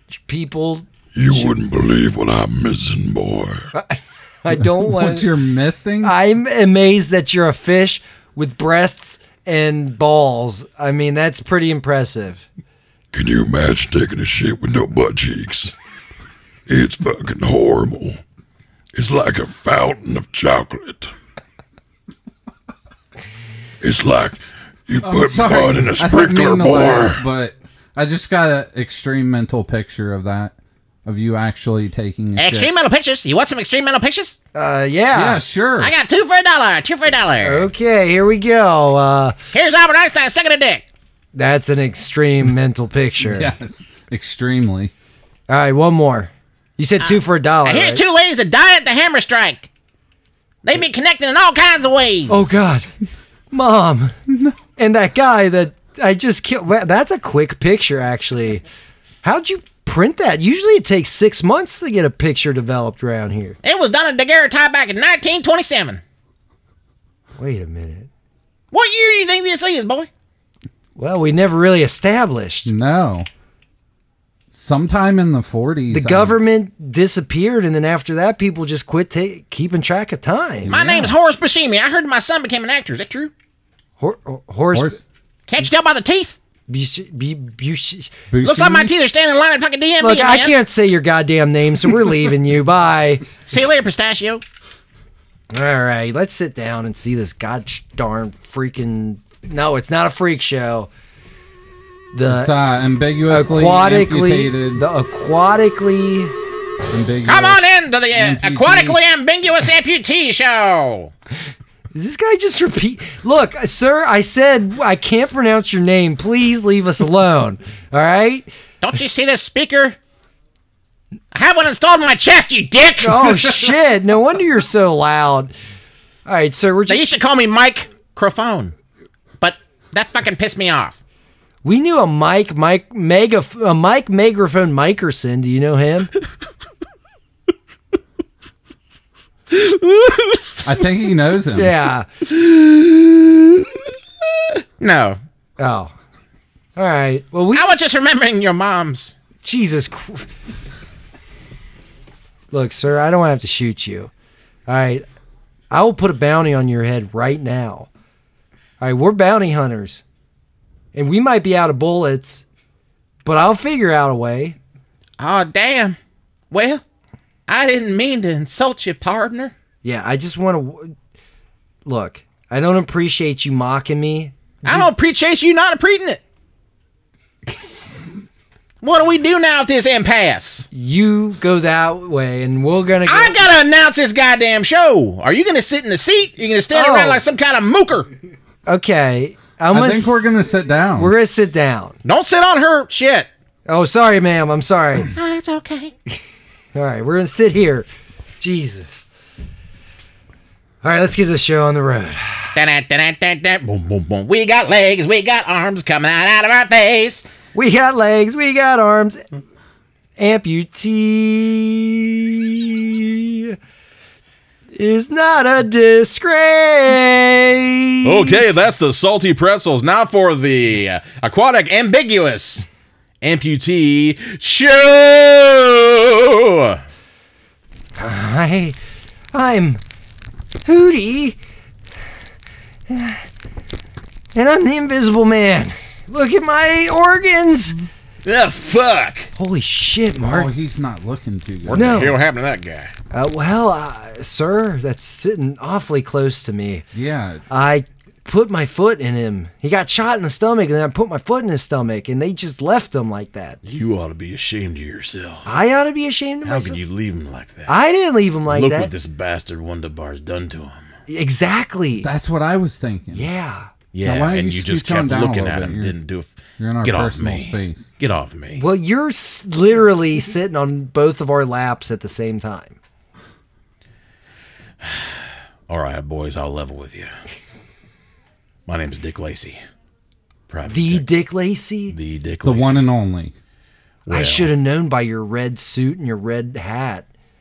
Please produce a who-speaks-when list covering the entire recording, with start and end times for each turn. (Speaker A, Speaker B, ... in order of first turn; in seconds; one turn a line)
Speaker A: 0.3-1.6
Speaker B: 1.1-3.7
Speaker A: 3.7-5.3
Speaker C: 4.5-6.1
Speaker A: 6.0-12.4
Speaker B: 13.1-15.7
Speaker B: 16.7-18.2
Speaker B: 18.9-21.1
Speaker B: 23.8-27.2
Speaker C: 25.0-30.5
Speaker C: 31.1-32.7
Speaker D: 32.4-34.4
Speaker A: 34.5-35.4
Speaker C: 35.1-35.9
Speaker D: 35.8-37.7
Speaker A: 37.4-39.4
Speaker D: 39.5-40.9
Speaker A: 41.3-43.5
Speaker C: 43.2-44.9
Speaker A: 45.5-48.0
Speaker D: 47.0-49.7
Speaker D: 50.6-52.5
Speaker A: 52.3-52.9
Speaker A: 53.5-54.1
Speaker A: 54.8-58.6
Speaker A: 59.2-63.6
Speaker D: 63.6-66.0
Speaker A: 67.4-68.1
Speaker D: 68.7-70.1
Speaker A: 71.0-72.7
Speaker C: 72.7-73.3
Speaker C: 74.5-76.4
Speaker A: 75.9-80.7
Speaker C: 80.7-81.1
Speaker D: 80.7-83.3
Speaker A: 84.0-85.0
Speaker C: 84.7-85.0
Speaker D: 85.5-86.4
Speaker A: 86.7-88.2
Speaker C: 88.3-88.9
Speaker D: 88.4-90.6
Speaker A: 90.0-93.2
Speaker D: 93.5-94.4
Speaker A: 95.5-100.9
Speaker A: 102.1-102.5
Speaker C: 102.3-104.8
Speaker A: 103.3-106.3
Speaker C: 106.9-109.0
Speaker D: 107.3-111.1
Speaker A: 111.9-118.5
Speaker D: 118.8-120.0
Speaker D: 121.3-123.4
Speaker A: 123.0-125.5
Speaker A: 126.3-127.2
Speaker D: 126.9-128.7
Speaker D: 129.4-131.0
Speaker A: 131.6-136.1
Speaker D: 139.5-140.5
Speaker C: 140.6-141.7
Speaker A: 141.6-142.1
Speaker D: 142.5-143.0
Speaker D: 144.8-145.2
Speaker A: 145.6-145.9
Speaker A: 146.8-147.8
Speaker D: 147.5-149.1
Speaker A: 149.4-150.3
Speaker A: 152.5-154.1
Speaker A: 154.7-155.1
Speaker A: 155.7-157.9
Speaker A: 158.8-160.0
Speaker A: 160.9-162.4
Speaker A: 163.2-164.6
Speaker D: 165.2-166.0
Speaker D: 166.5-166.8
Speaker D: 167.5-169.5
Speaker A: 169.8-170.9
Speaker A: 171.9-174.9
Speaker D: 174.6-176.2
Speaker D: 178.8-180.7
Speaker A: 180.7-183.4
Speaker D: 183.1-188.1
Speaker A: 186.7-187.2
Speaker A: 188.7-190.4
Speaker C: 189.7-191.1
Speaker A: 191.0-192.0
Speaker D: 192.0-193.3
Speaker A: 193.7-195.1
Speaker D: 195.1-195.9
Speaker A: 196.8-197.9
Speaker A: 198.4-199.0
Speaker A: 200.8-202.5
Speaker D: 202.6-207.3
Speaker A: 207.5-209.2
Speaker A: 210.2-213.6
Speaker A: 214.8-218.6
Speaker E: 218.0-222.7
Speaker E: 223.2-226.8
Speaker A: 228.0-228.8
Speaker A: 229.3-229.8
Speaker A: 230.7-231.4
Speaker A: 232.9-233.2
Speaker A: 234.3-237.8
Speaker D: 238.3-239.3
Speaker A: 239.4-240.5
Speaker C: 240.2-242.1
Speaker A: 241.7-242.2
Speaker E: 241.7-242.9
Speaker A: 243.1-246.9
Speaker C: 246.9-247.4
Speaker A: 247.5-253.6
Speaker E: 253.6-255.5
Speaker A: 255.4-256.8
Speaker E: 256.4-257.8
Speaker A: 257.7-258.9
Speaker E: 258.5-260.8
Speaker A: 261.1-262.1
Speaker C: 262.0-263.3
Speaker A: 263.1-263.7
Speaker E: 263.9-266.3
Speaker C: 264.0-265.9
Speaker C: 266.6-267.9
Speaker E: 266.9-268.6
Speaker A: 268.6-272.8
Speaker E: 275.7-277.1
Speaker E: 278.7-279.6
Speaker E: 280.5-281.1
Speaker A: 280.7-282.0
Speaker E: 281.9-282.8
Speaker C: 282.4-283.3
Speaker E: 284.1-284.5
Speaker A: 284.1-287.1